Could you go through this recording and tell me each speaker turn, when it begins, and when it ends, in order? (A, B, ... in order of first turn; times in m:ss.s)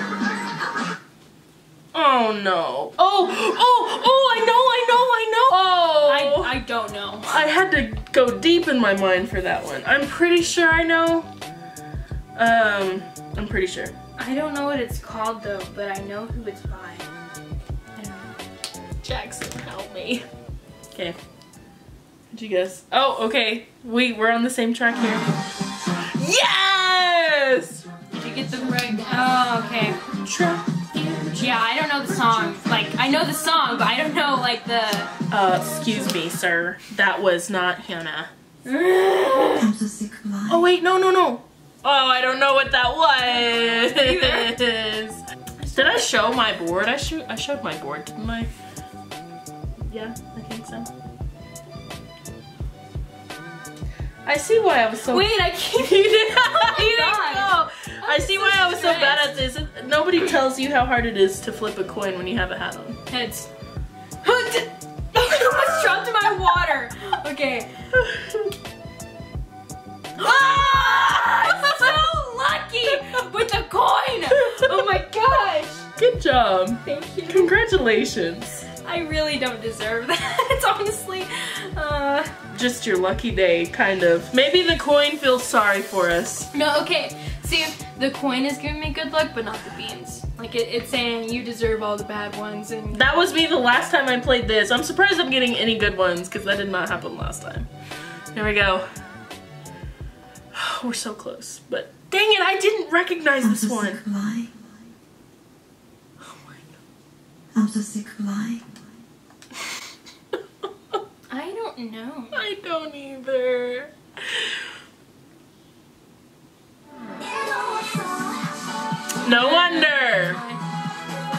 0:01.9-0:06.5 A
0:06.1-0:07.4 B
0:07.3-0:11.3 A
0:12.4-0:13.9 A
0:14.2-0:17.1 B
0:18.0-0:18.3 B
0:19.0-0:20.2 A
0:22.3-0:25.3 A
0:26.2-0:27.8 A
0:28.1-0:30.0 B
0:30.2-0:31.6 A
0:31.4-0:35.1 B
0:35.3-0:38.3 A
0:38.6-0:39.7 B
0:39.6-0:40.6 C
0:40.5-0:45.2 A
0:43.8-0:44.5 B
0:45.6-0:46.1 B
0:45.7-0:48.5 A
0:49.8-0:50.9 A
0:54.2-1:03.0 A
0:55.1-0:59.4 B
1:03.1-1:03.5 B
1:04.2-1:07.7 B
1:07.9-1:08.5 A
1:10.2-1:15.9 B
1:16.0-1:18.6 A
1:16.8-1:17.5 B
1:18.8-1:22.3 B
1:22.5-1:26.5 A
1:26.5-1:33.3 B
1:32.9-1:37.7 A
1:38.3-1:38.9 A
1:40.5-1:44.0 A
1:43.4-1:44.7 C
1:46.2-1:46.6 A
1:47.5-1:48.8 C
1:51.3-1:52.4 B
1:52.3-1:54.6 A
1:59.2-2:00.4 A
1:59.2-2:00.6 B